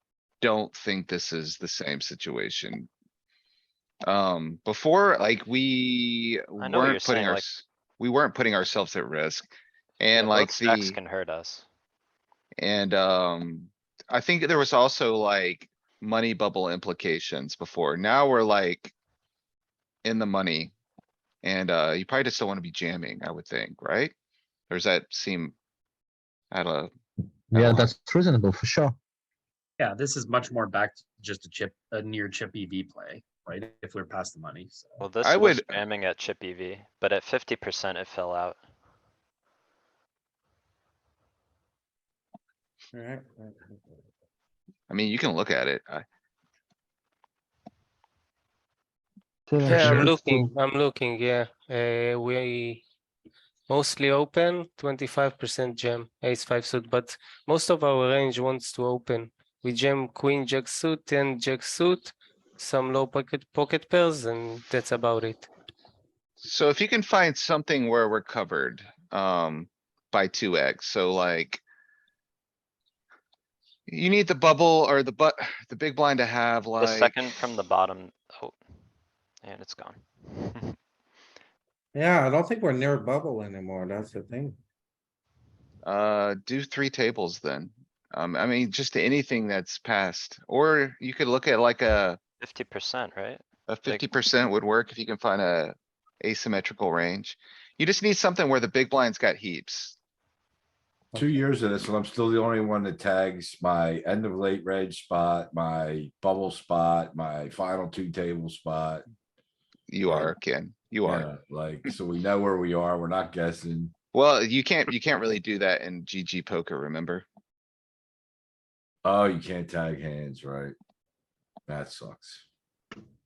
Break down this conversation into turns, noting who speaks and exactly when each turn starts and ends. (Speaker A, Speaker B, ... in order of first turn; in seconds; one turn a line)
Speaker A: 0.4-2.9
Speaker A: 4.0-11.0
Speaker B: 6.6-7.5
Speaker B: 10.1-11.6
Speaker A: 12.6-18.9
Speaker A: 20.0-20.7
Speaker A: 21.4-24.1
Speaker A: 24.7-25.5
Speaker A: 26.5-26.9
Speaker C: 27.5-28.9
Speaker A: 27.6-27.9
Speaker D: 29.8-35.0
Speaker B: 35.0-38.6
Speaker A: 35.2-35.8
Speaker E: 42.9-44.0
Speaker A: 44.9-46.0
Speaker C: 49.5-50.5
Speaker F: 49.6-52.8
Speaker F: 53.7-65.5
Speaker A: 66.4-71.6
Speaker A: 73.9-77.2
Speaker B: 76.8-78.6
Speaker B: 79.4-80.7
Speaker E: 81.9-84.6
Speaker A: 85.8-92.2
Speaker B: 92.4-94.1
Speaker A: 93.7-100.0
Speaker G: 101.1-109.0
Speaker A: 109.9-111.3
Speaker G: 110.1-110.3
Speaker G: 111.0-113.9
Speaker A: 114.1-117.2
Speaker G: 119.0-120.7
Speaker G: 121.7-122.4